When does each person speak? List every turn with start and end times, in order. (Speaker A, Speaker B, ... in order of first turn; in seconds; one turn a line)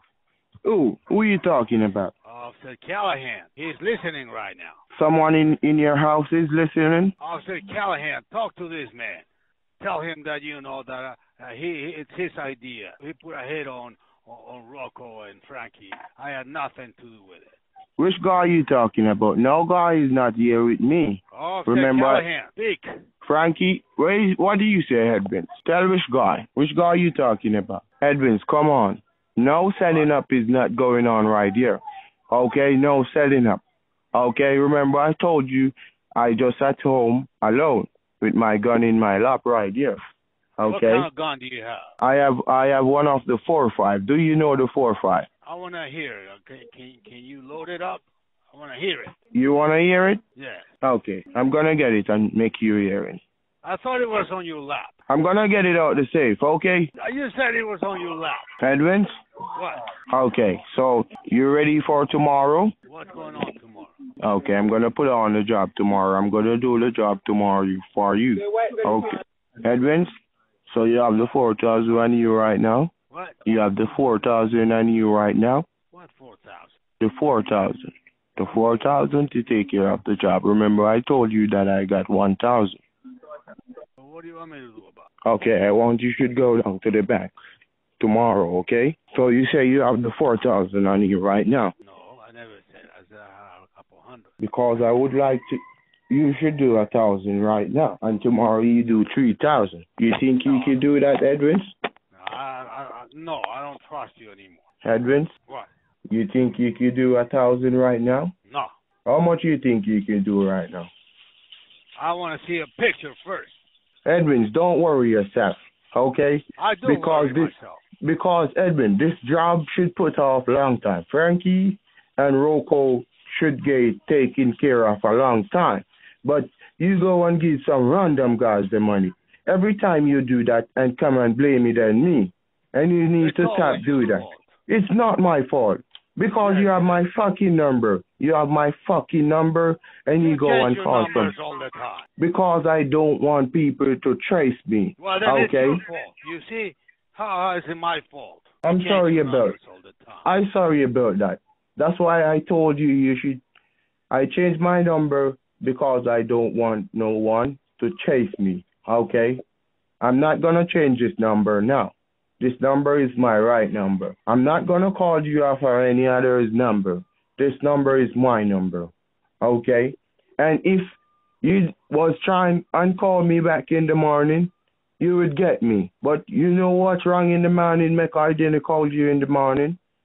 Speaker A: 0.6-2.1
Speaker B: 2.2-4.8
Speaker A: 4.9-7.1
Speaker B: 7.2-9.2
Speaker B: 9.8-17.6
Speaker A: 18.0-22.3
Speaker B: 21.3-22.9
Speaker A: 23.2-33.6
Speaker A: 34.1-40.0
Speaker A: 40.6-41.1
Speaker B: 40.7-41.9
Speaker A: 42.0-45.3
Speaker B: 45.5-49.1
Speaker A: 49.3-50.2
Speaker B: 50.4-50.7
Speaker A: 50.8-53.2
Speaker B: 53.6-55.0
Speaker A: 55.1-56.9
Speaker B: 57.0-58.5
Speaker A: 58.6-59.1
Speaker B: 59.5-59.9
Speaker A: 60.1-62.7
Speaker B: 62.9-64.0
Speaker A: 64.2-70.1
Speaker A: 70.7-72.9
Speaker B: 73.1-73.4
Speaker A: 73.5-75.7
Speaker B: 75.9-76.7
Speaker A: 77.0-82.8
Speaker B: 84.0-85.1
Speaker A: 85.2-87.3
Speaker A: 88.0-91.7
Speaker B: 91.8-94.3
Speaker A: 94.4-101.7
Speaker B: 100.5-100.8
Speaker B: 102.1-104.6
Speaker A: 104.8-105.3
Speaker A: 106.1-108.3
Speaker A: 109.0-110.9
Speaker B: 112.0-113.6
Speaker A: 114.0-141.3
Speaker B: 116.6-117.8
Speaker B: 133.2-134.5
Speaker B: 136.4-137.0
Speaker B: 140.2-142.1
Speaker A: 142.2-145.8
Speaker B: 145.0-150.3
Speaker A: 148.6-149.6
Speaker A: 150.2-153.4
Speaker A: 154.1-159.4
Speaker A: 160.0-179.8